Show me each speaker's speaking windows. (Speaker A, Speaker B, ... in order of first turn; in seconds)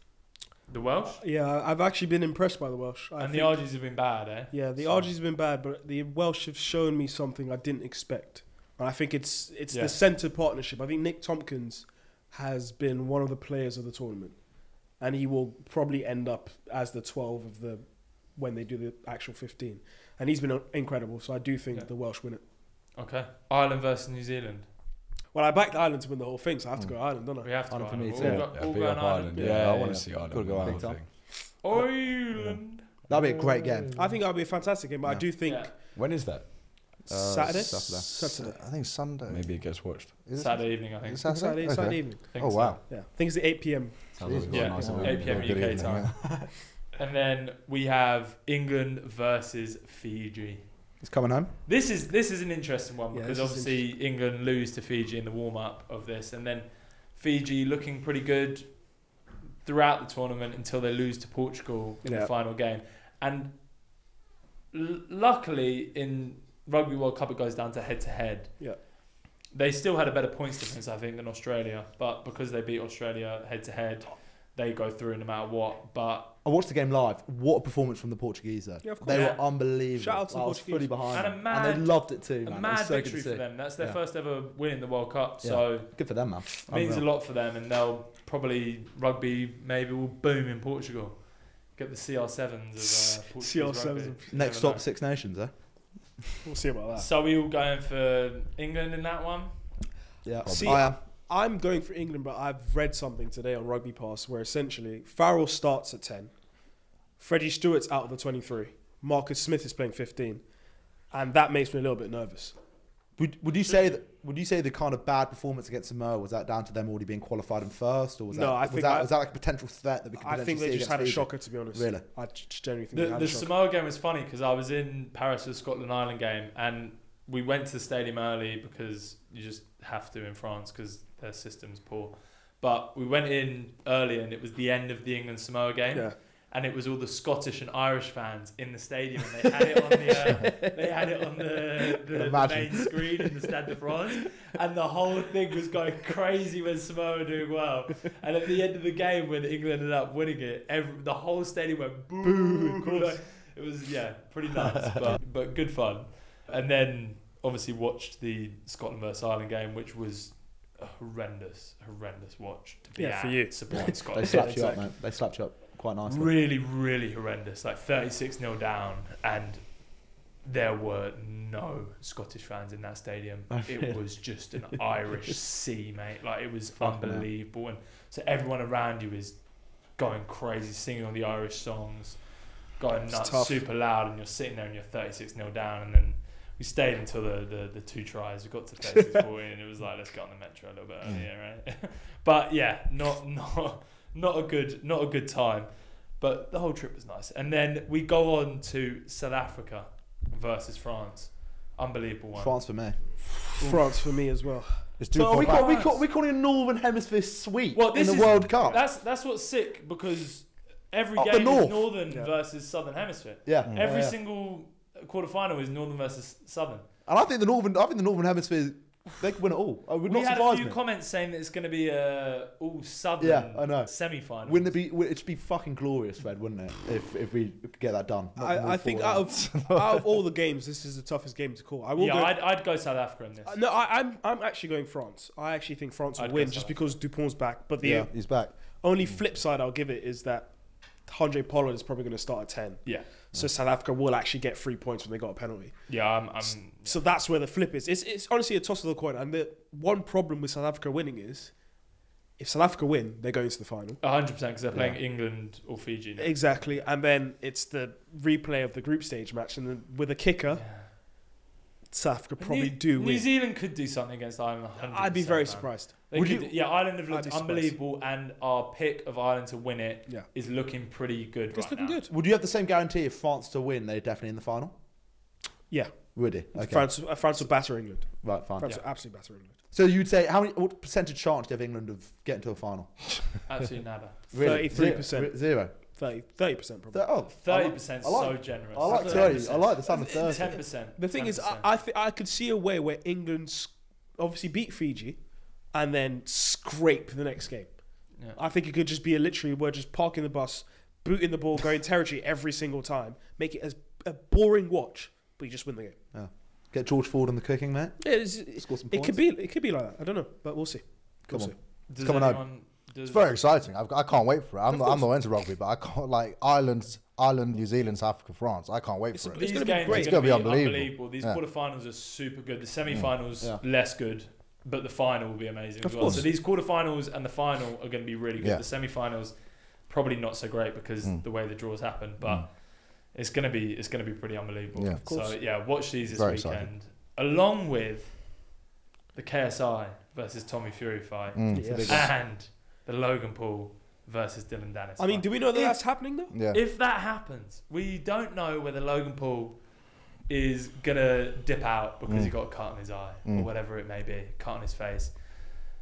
Speaker A: 0.7-1.2, 3.2-5.1, 9.7-10.0, 22.9-24.7, 27.4-29.5, 31.6-32.9, 35.4-35.7, 40.4-42.8, 44.5-46.2, 47.0-50.6, 51.6-58.8, 59.6-63.5, 64.7-68.9, 69.5-76.3, 79.0-79.4, 81.1-85.9, 86.5-94.8, 97.0-99.5, 122.9-164.7, 166.1-169.8, 170.4-179.4, 179.9-202.5, 205.4-206.0, 207.7-216.8, 220.1-224.7, 231.9-233.6, 236.2-236.8, 245.9-247.0, 254.0-256.3, 260.5-260.9, 262.4-272.0, 283.4-284.6, 287.4-291.7, 311.9-313.4, 319.3-338.5, 339.1-349.6, 350.3-355.1
Speaker B: 1.2-22.4, 25.3-27.6, 29.3-29.7, 33.9-35.9, 37.1-38.6, 41.2-44.2, 53.1-53.9, 62.0-62.3, 78.8-81.0, 92.8-94.3, 96.4-97.1, 100.5-106.3, 107.2-110.4, 111.0-112.5, 118.3-119.1, 120.2-123.5, 152.4-153.1, 162.9-164.9, 183.1-183.6, 203.6-205.0, 228.3-232.6, 233.4-251.6, 252.4-254.0, 256.2-260.7, 261.9-263.3, 264.8-266.1, 267.1-267.8, 271.5-272.1, 275.7-279.6, 284.3-287.1, 288.8-306.0, 308.0-311.5, 314.7-315.0, 319.1-320.4, 325.8-326.2, 335.0-335.4, 341.5-342.1, 345.0-346.3
Speaker C: 27.7-28.5, 30.6-31.0, 33.1-34.0, 37.1-38.1, 51.0-51.5, 76.4-84.0, 85.4-87.0, 94.3-95.5, 100.2-101.0, 113.2-122.1, 142.1-143.2, 163.7-166.3, 173.5-174.0, 176.8-177.2, 202.3-203.0, 205.1-208.8, 211.2-211.9, 213.4-214.2, 217.1-220.8, 223.2-229.4, 266.1-266.5, 272.1-274.7, 276.1-277.5, 278.2-278.7, 279.7-283.4, 284.3-285.9, 286.9-290.6, 306.1-308.0, 308.5-309.2, 311.3-312.4, 341.7-341.9
Speaker D: 28.2-31.1, 35.9-36.5, 39.3-40.1, 44.1-46.1
Speaker E: 29.4-31.0, 32.4-34.1, 37.5-42.8, 44.2-46.5, 205.0-205.7, 229.3-230.1, 237.8-239.2, 313.1-321.4, 322.9-323.1, 326.0-326.3, 328.4-328.6, 332.2-332.4, 334.7-336.7, 341.3-342.1, 346.3-346.6, 352.1-352.7